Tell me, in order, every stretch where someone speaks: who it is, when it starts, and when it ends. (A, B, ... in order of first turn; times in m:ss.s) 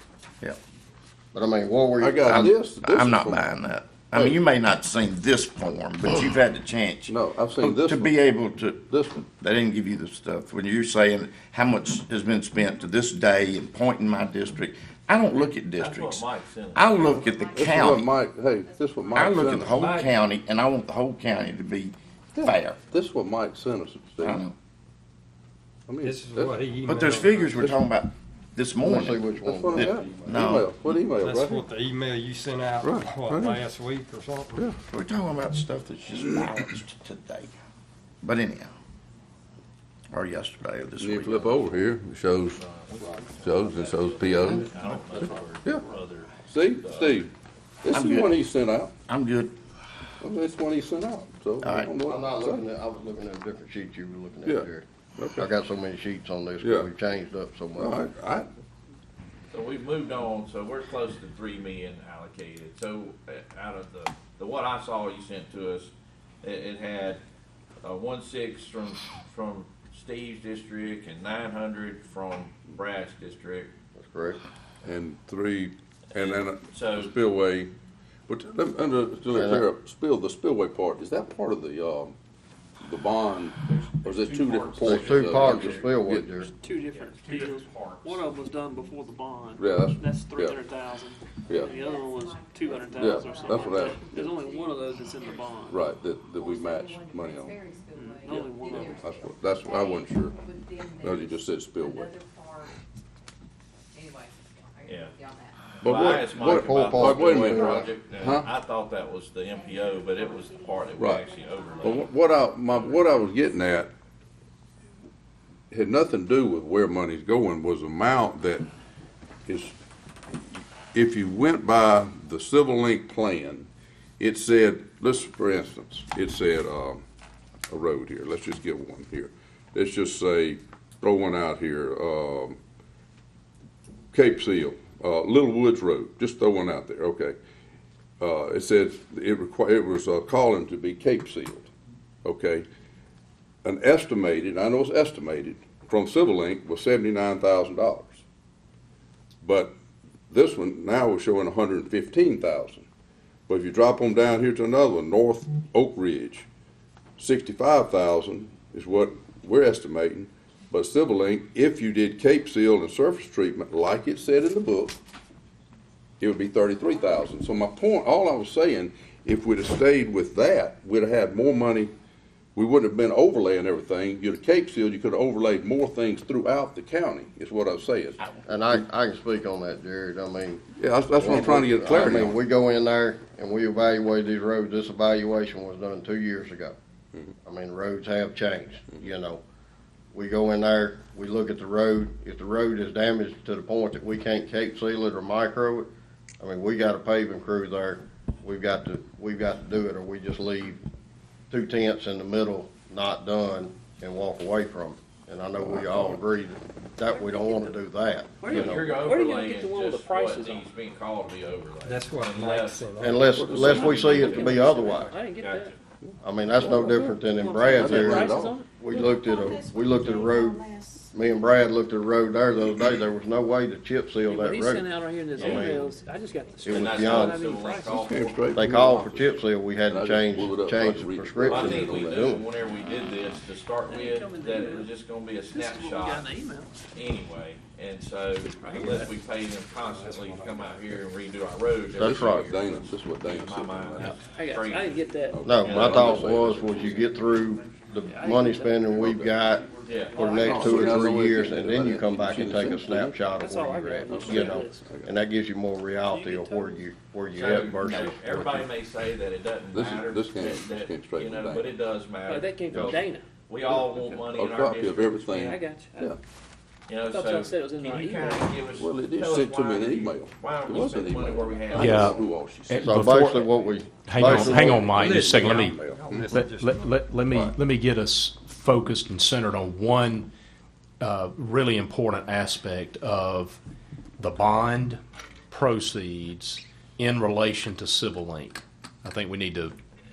0:01.3-0:02.4 A
0:02.0-0:03.4 B
0:02.2-0:18.1 C
0:04.1-0:04.4 B
0:07.1-0:08.2 B
0:08.9-0:09.2 B
0:15.7-0:17.2 D
0:17.1-0:20.4 E
0:17.5-0:20.0 B
0:19.1-0:22.8 C
0:22.3-0:24.4 B
0:24.2-0:24.5 C
0:25.9-0:26.6 B
0:26.0-0:27.7 F
0:26.8-0:30.7 C
0:27.5-0:27.8 B
0:28.8-0:30.4 A
0:29.4-0:31.7 B
0:31.1-0:34.7 F
0:32.8-0:33.6 B
0:34.9-0:37.5 C
0:38.2-0:38.7 C
0:40.1-0:41.6 C
0:41.0-0:42.6 B
0:42.5-0:47.2 D
0:43.4-0:44.7 B
0:44.4-0:45.3 A
0:46.5-0:47.3 B
0:47.8-0:48.9 B
0:47.9-0:48.4 C
0:49.0-0:49.6 C
0:50.2-0:52.6 B
0:51.6-0:51.9 C
0:52.0-0:54.8 A
0:54.4-0:55.5 B
0:55.4-0:58.0 A
0:56.6-0:56.9 B
0:57.8-0:58.5 B
0:59.5-1:07.2 D
1:07.8-1:13.7 D
1:14.0-1:14.4 A
1:14.8-1:17.7 B
1:16.1-1:17.1 D
1:18.3-1:22.1 B
1:19.3-1:19.7 A
1:22.8-1:26.5 B
1:23.6-1:25.8 D
1:24.8-1:26.5 A
1:26.6-1:35.8 G
1:26.9-1:28.2 D
1:29.6-1:30.6 B
1:31.5-1:31.7 B
1:31.6-1:35.5 E
1:33.0-1:34.0 B
1:35.7-1:37.6 B
1:36.3-1:42.7 E
1:38.0-1:38.8 G
1:38.2-1:40.4 B
1:41.0-1:42.2 B
1:43.9-1:45.6 E
1:44.8-1:45.2 D
1:45.8-1:52.1 D
1:45.8-1:48.5 B
1:46.3-1:47.9 A
1:49.5-1:52.1 E
1:51.0-1:51.3 B
1:51.8-1:53.9 B
1:55.7-1:58.7 B
1:59.5-1:59.8 B
2:00.6-2:07.0 B
2:07.7-2:12.6 B
2:14.1-2:17.4 B
2:18.2-2:21.7 B
2:22.2-2:22.6 B
2:23.6-2:28.2 B
2:29.4-2:29.7 B
2:30.3-2:32.9 B
2:33.5-2:36.5 B
2:37.2-2:45.0 B
2:46.2-2:51.9 B
2:52.5-2:58.8 B
2:58.4-3:00.6 A
3:00.8-3:02.4 B
3:01.1-3:06.8 A
3:07.4-3:09.4 A
3:10.1-3:15.9 A
3:16.4-3:20.8 A
3:21.5-3:29.0 A
3:25.6-3:26.2 B
3:27.1-3:27.8 G
3:28.4-3:30.6 G
3:28.5-3:32.8 D
3:31.8-3:33.3 F
3:33.0-3:35.1 A
3:33.3-3:34.5 B
3:33.4-3:34.6 D
3:34.2-3:34.5 F
3:34.5-3:35.7 G
3:35.4-3:35.7 D
3:36.0-3:37.2 B
3:36.2-3:45.9 A
3:36.6-3:38.7 G
3:37.7-3:38.5 B
3:38.9-3:41.1 E
3:42.6-3:43.0 B
3:44.2-3:48.2 G
3:45.3-3:45.8 D
3:46.6-3:47.4 A
3:46.7-3:48.6 D
3:47.8-3:52.4 B
3:48.5-3:52.5 A
3:51.4-3:56.3 D
3:53.9-3:54.9 G
3:55.5-3:56.7 G
3:56.9-4:06.4 D
3:58.4-3:59.1 G
3:59.8-4:01.0 F
4:01.9-4:02.5 A
4:01.9-4:04.2 B
4:04.0-4:05.4 G
4:05.3-4:07.2 B
4:05.4-4:18.7 A
4:08.0-4:09.1 G
4:09.0-4:09.3 B
4:09.8-4:10.5 D
4:09.9-4:11.1 G
4:10.4-4:13.2 B
4:13.3-4:14.9 G
4:14.1-4:15.1 B
4:16.0-4:16.9 G
4:17.3-4:25.6 D
4:17.4-4:17.9 G
4:19.7-4:21.7 B
4:22.2-4:23.2 G
4:22.7-4:23.0 A
4:23.7-4:26.2 B
4:25.3-4:26.1 G
4:26.9-4:32.2 D
4:27.0-4:28.6 G
4:28.8-4:32.9 B
4:31.7-4:40.3 H
4:32.8-4:35.1 A
4:34.2-4:36.2 B
4:35.0-4:35.5 D
4:35.9-4:37.0 F
4:41.0-4:43.6 H
4:44.2-4:49.7 H